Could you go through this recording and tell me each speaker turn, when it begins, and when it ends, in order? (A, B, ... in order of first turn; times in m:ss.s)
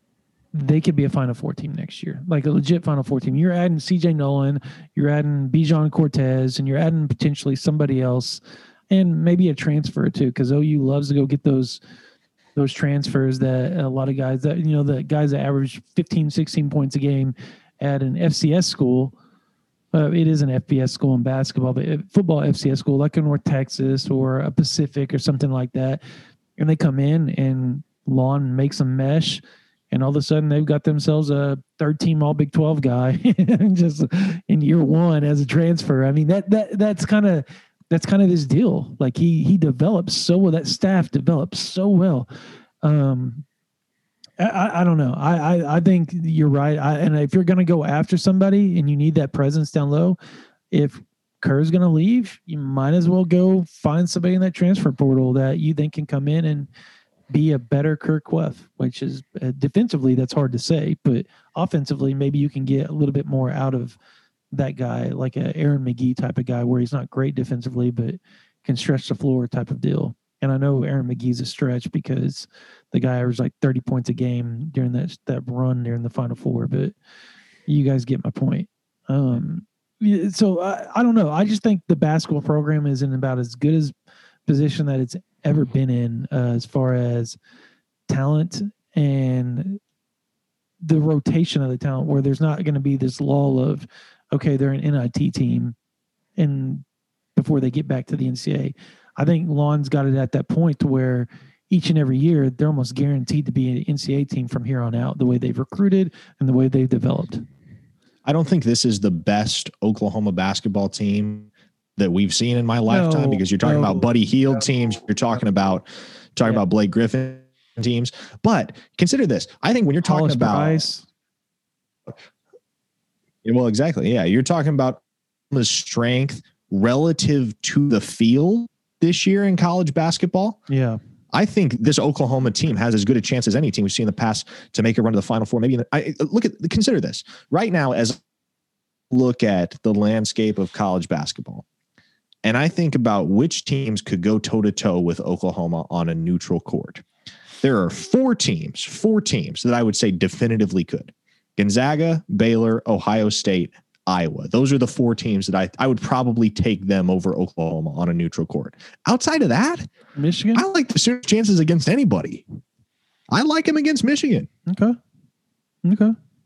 0:00.5-0:11.8 A
0:12.6-0:19.1 A
0:19.9-0:26.0 A
0:26.6-0:42.3 A
0:42.8-0:43.4 A
0:44.4-0:50.2 A
0:50.7-0:56.7 A
0:57.3-1:04.0 A
1:04.5-1:16.9 A
1:17.7-1:23.9 A
1:24.5-1:27.4 A
1:28.1-1:29.8 A
1:30.8-1:35.7 A
1:36.4-1:36.8 A
1:37.4-1:47.4 A
1:48.2-2:00.8 B
1:52.9-1:54.1 A
2:00.0-2:01.0 A
2:03.4-2:10.6 B
2:10.7-2:11.0 A
2:11.3-2:18.2 B
2:19.1-2:21.6 B
2:22.4-2:27.0 B
2:27.6-2:39.9 B
2:40.2-2:40.6 A
2:40.5-2:42.4 B
2:43.3-2:44.5 B
2:44.7-2:45.0 A
2:45.8-2:46.2 A